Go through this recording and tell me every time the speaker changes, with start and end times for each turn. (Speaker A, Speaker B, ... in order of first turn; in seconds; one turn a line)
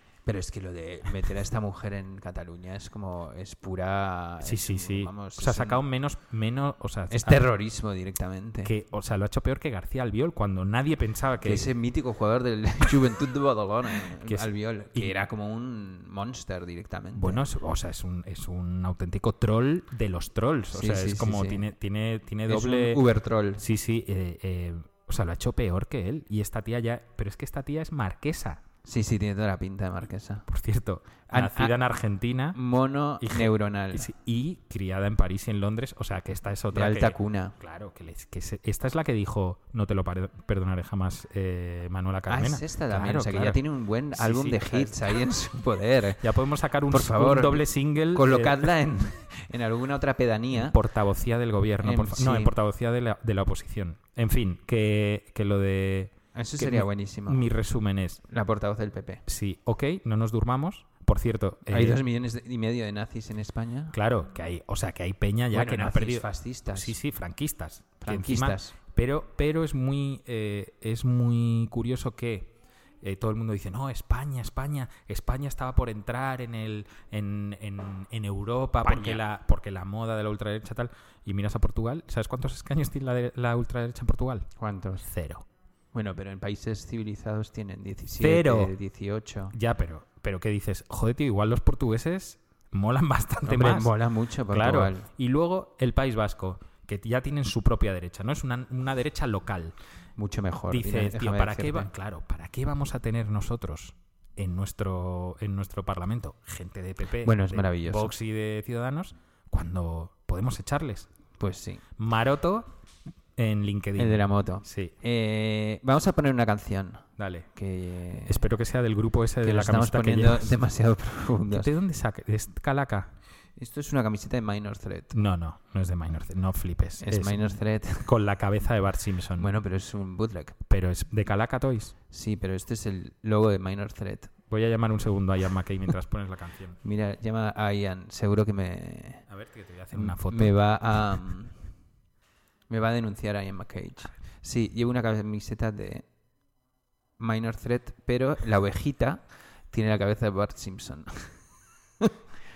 Speaker A: 0.2-5.8
Speaker B: 4.4-7.5
Speaker A: 7.1-8.7
Speaker B: 8.6-11.7
Speaker A: 11.4-17.4
Speaker B: 14.1-15.2
Speaker B: 17.1-23.0
Speaker A: 20.7-21.7
Speaker A: 22.5-23.6
Speaker B: 23.6-28.6
Speaker A: 28.8-30.5
Speaker B: 30.5-32.6
Speaker A: 31.3-31.8
Speaker A: 32.5-34.1
Speaker B: 33.2-43.6
Speaker A: 36.7-37.5
Speaker A: 42.3-46.2
Speaker B: 44.1-45.2
Speaker B: 46.2-48.7
Speaker A: 46.9-50.8
Speaker B: 50.5-58.2
Speaker A: 51.8-52.5
Speaker A: 56.3-57.4
Speaker A: 58.3-59.2
Speaker B: 59.3-62.0
Speaker A: 61.7-64.0
Speaker B: 63.9-84.5
Speaker A: 65.5-67.0
Speaker A: 68.0-68.7
Speaker A: 78.8-79.2
Speaker A: 84.6-85.0
Speaker B: 85.0-85.5
Speaker A: 85.9-89.5
Speaker B: 88.2-88.7
Speaker B: 89.5-93.9
Speaker A: 93.5-95.1
Speaker B: 94.5-99.8
Speaker A: 100.2-101.9
Speaker B: 100.7-111.1
Speaker A: 107.2-108.1
Speaker A: 111.4-111.8
Speaker B: 112.0-112.7
Speaker B: 113.3-114.9
Speaker A: 114.0-118.4
Speaker B: 117.2-117.5
Speaker B: 118.2-120.6
Speaker A: 119.4-121.7
Speaker B: 121.5-123.1
Speaker A: 123.6-125.2
Speaker B: 125.1-129.5
Speaker A: 127.0-128.1
Speaker A: 129.4-130.6
Speaker B: 130.7-131.9
Speaker A: 132.1-134.3
Speaker B: 134.5-136.8
Speaker A: 136.8-139.3
Speaker B: 139.3-140.6
Speaker A: 139.9-141.5
Speaker A: 142.7-146.0
Speaker A: 147.2-151.4